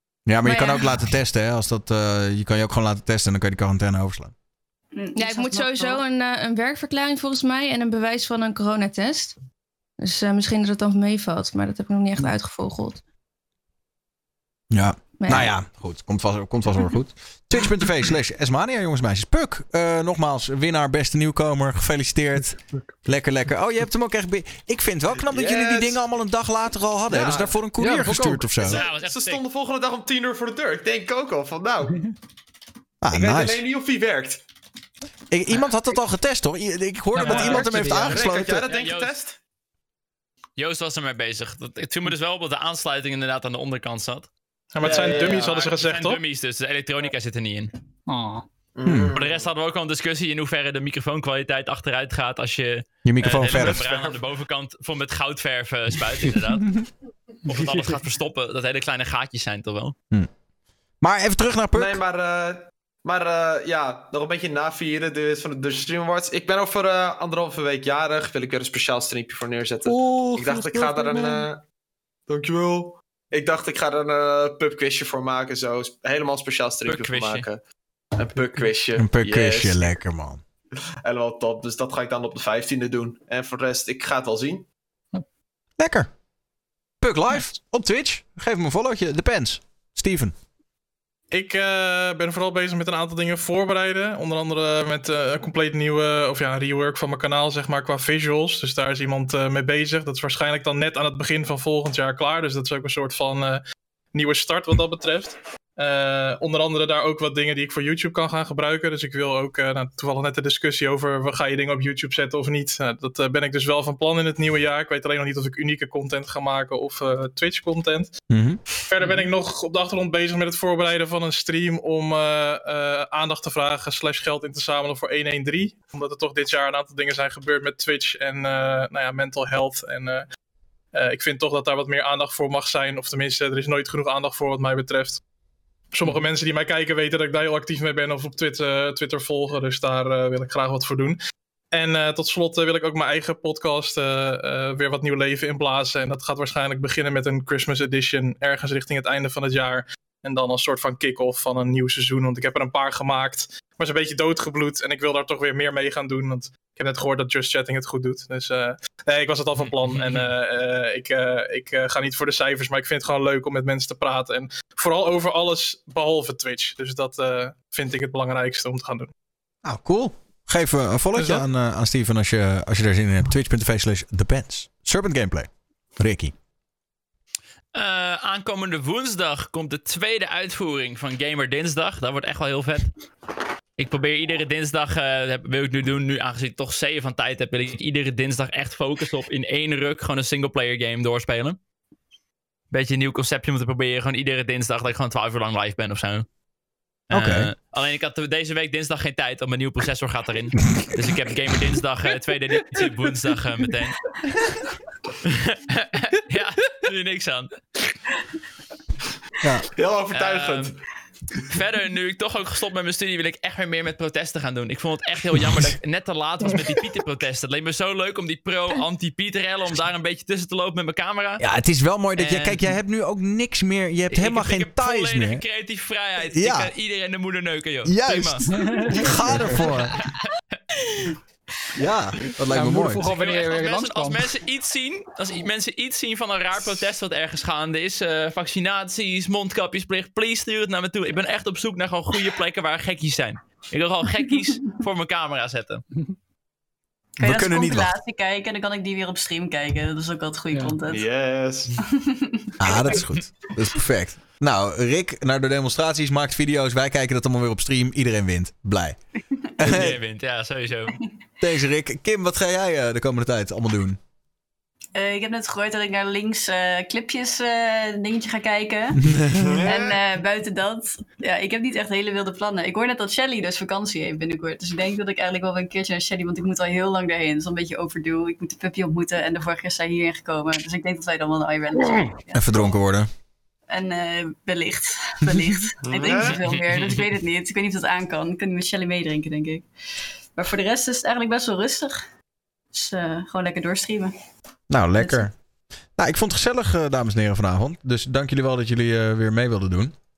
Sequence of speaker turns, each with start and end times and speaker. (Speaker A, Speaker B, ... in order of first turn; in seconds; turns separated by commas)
Speaker A: 0.3-4.3, Speaker B: 0.4-0.9, Speaker C: 4.9-6.0, Speaker B: 5.2-9.3, Speaker B: 10.0-13.0, Speaker A: 14.7-28.8, Speaker B: 15.2-15.5, Speaker D: 25.2-26.0, Speaker E: 27.1-28.6, Speaker F: 28.6-29.4, Speaker D: 28.6-32.0, Speaker A: 33.0-33.6, Speaker D: 33.1-34.4, Speaker A: 35.3-38.7, Speaker E: 37.1-38.2, Speaker F: 37.3-37.5, Speaker D: 37.5-39.4, Speaker F: 38.7-39.1, Speaker F: 40.6-44.3, Speaker G: 44.7-46.2, Speaker D: 44.8-45.7, Speaker F: 44.9-47.7, Speaker E: 48.1-48.5, Speaker D: 48.8-49.5, Speaker A: 48.9-49.1, Speaker F: 49.1-56.7, Speaker A: 53.0-53.9, Speaker D: 53.6-54.2, Speaker F: 57.5-60.0, Speaker A: 61.0-62.0, Speaker D: 61.7-71.6, Speaker E: 69.8-71.5, Speaker D: 72.3-77.6, Speaker F: 76.9-77.5, Speaker D: 78.2-79.9, Speaker A: 79.0-80.4, Speaker D: 81.0-84.7, Speaker A: 85.8-86.1, Speaker A: 87.0-90.3, Speaker G: 91.3-103.6, Speaker G: 104.1-118.1, Speaker A: 118.3-118.6, Speaker G: 118.9-130.2, Speaker E: 119.0-119.3, Speaker G: 130.9-135.2, Speaker G: 135.9-141.2, Speaker G: 141.7-169.1, Speaker A: 169.6-176.3, Speaker F: 177.7-182.9, Speaker F: 183.8-191.6, Speaker F: 192.7-196.3, Speaker F: 197.1-204.0, Speaker A: 197.1-197.5, Speaker F: 205.2-207.6, Speaker A: 209.4-209.7, Speaker D: 209.7-210.8, Speaker F: 210.1-210.7, Speaker F: 211.5-221.4, Speaker A: 221.4-225.4, Speaker F: 222.2-222.6, Speaker F: 224.1-228.5, Speaker A: 226.3-226.7, Speaker A: 227.8-229.9, Speaker E: 228.5-229.8, Speaker F: 229.0-230.3, Speaker A: 231.8-233.0, Speaker E: 232.5-234.3, Speaker F: 233.0-245.8, Speaker C: 247.2-251.0, Speaker A: 247.2-247.9, Speaker E: 250.5-250.8, Speaker D: 250.9-251.7, Speaker C: 251.8-253.0, Speaker A: 252.6-259.0, Speaker F: 252.9-253.2, Speaker A: 259.6-260.0, Speaker F: 259.6-261.0, Speaker A: 261.4-264.0, Speaker C: 264.9-282.7, Speaker A: 269.0-269.6, Speaker D: 269.4-270.0, Speaker A: 282.3-283.1, Speaker C: 283.7-289.7, Speaker D: 285.8-286.4, Speaker C: 290.4-292.0, Speaker C: 292.7-294.1, Speaker A: 294.7-295.3, Speaker C: 295.0-295.3, Speaker A: 296.0-299.9